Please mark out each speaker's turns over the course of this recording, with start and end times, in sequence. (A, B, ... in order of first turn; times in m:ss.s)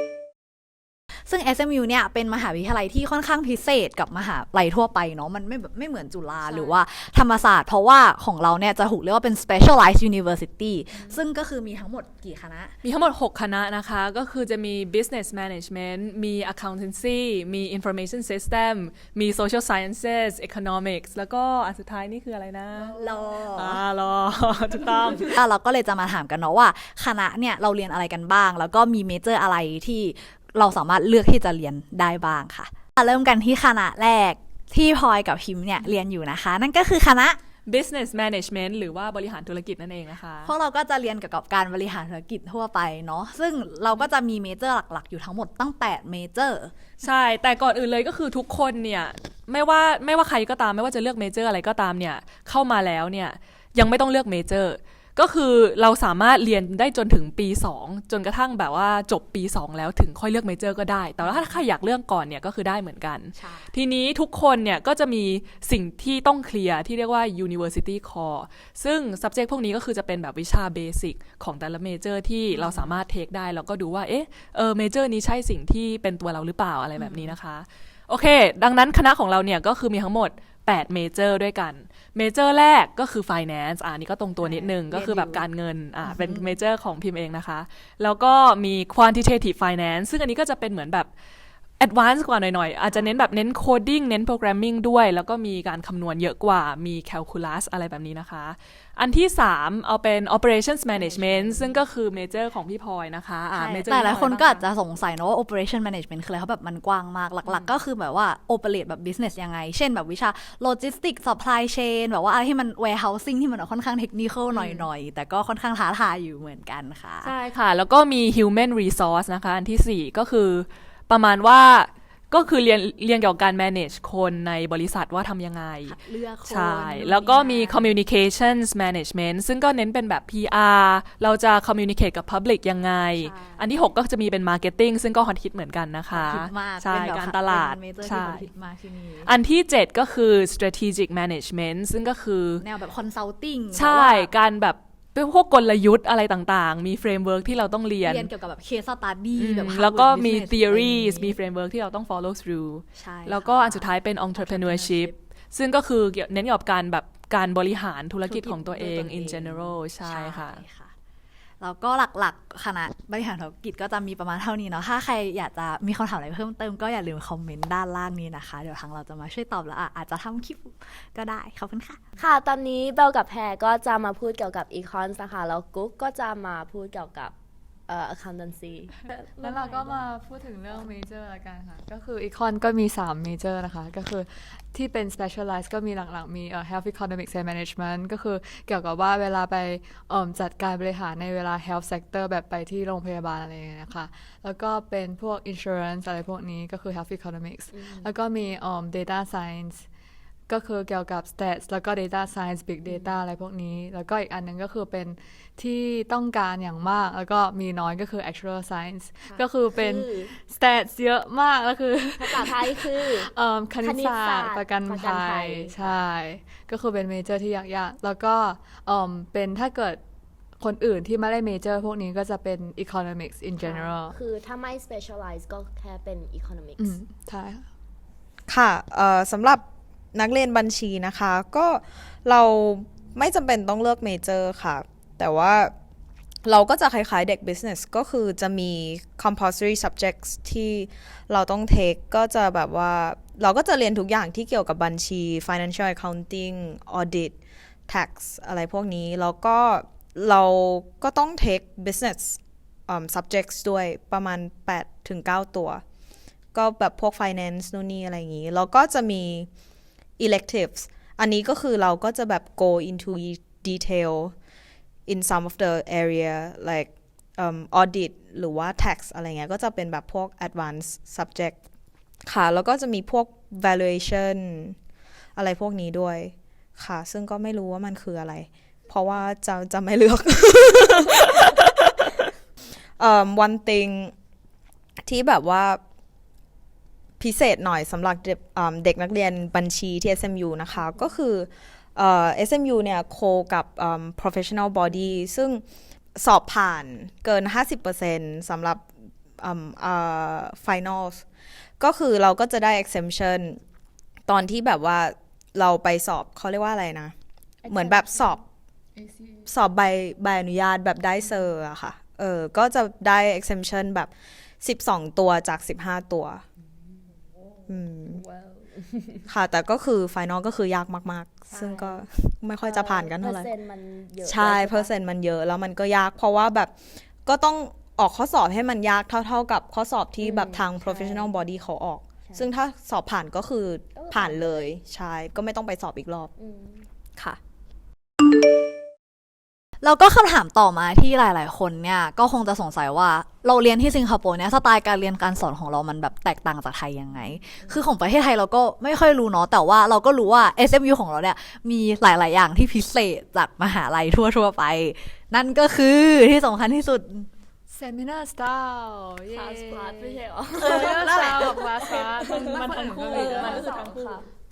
0:01.3-0:12.7 A
0:06.4-0:06.8 B
0:12.8-0:25.4 B
0:22.8-0:23.8 A
0:25.3-0:37.4 A
0:37.6-0:40.5 B
0:40.4-0:46.7 A
0:47.0-1:31.1 B
1:01.2-1:01.6 A
1:03.3-1:03.7 A
1:12.5-1:12.9 A
1:17.0-1:17.3 A
1:24.4-1:25.4 A
1:26.0-1:26.6 A
1:31.8-1:44.6 B
1:41.0-1:41.5 A
1:43.9-1:57.3 A
1:47.4-1:47.8 B
1:54.5-1:54.9 B
1:57.2-2:05.9 B
2:05.8-2:08.0 A
2:06.4-2:18.4 B
2:13.2-2:13.7 A
2:16.1-2:19.3 A
2:19.2-2:22.6 B
2:22.6-2:24.3 A
2:23.7-2:28.3 B
2:28.0-2:31.4 A
2:29.4-2:40.6 B
2:33.0-2:35.2 A
2:38.2-2:40.9 A
2:41.6-2:52.0 A
2:52.2-2:57.3 C
2:57.9-3:00.0 C
2:59.4-3:19.8 D
3:17.7-3:18.1 C
3:20.5-3:40.0 D
3:22.8-3:23.1 C
3:29.2-3:30.3 C
3:32.2-3:35.9 C
3:40.6-3:44.2 D
3:43.6-3:46.9 C
3:46.8-3:47.6 D
3:48.5-3:49.6 E
3:50.1-3:55.7 E
3:56.4-4:07.4 E
4:07.9-4:15.8 E
4:16.5-4:19.5 E
4:20.2-4:24.3 E
4:25.1-4:31.6 E
4:32.2-4:34.8 E
4:35.4-4:42.2 E
4:43.0-4:44.1 E
4:45.0-4:45.8 E
4:47.2-4:55.6 E
4:56.2-4:58.8 E
4:59.4-5:01.2 E
5:01.8-5:03.6 E
5:04.3-5:07.1 E
5:07.6-5:08.4 C
5:07.7-5:08.4 E
5:09.5-5:16.4 E
5:17.7-5:18.2 E
5:18.1-5:19.3 C
5:19.3-5:23.5 E
5:21.5-5:22.0 C
5:22.6-5:25.0 C
5:24.2-5:36.3 E
5:30.2-5:31.3 C
5:33.9-5:34.7 C
5:36.4-5:36.8 C
5:39.8-5:57.3 A
5:57.7-6:03.7 D
5:59.3-6:02.5 C
6:00.5-6:01.6 A
6:02.3-6:04.2 B
6:02.5-6:03.6 E
6:03.2-6:04.2 C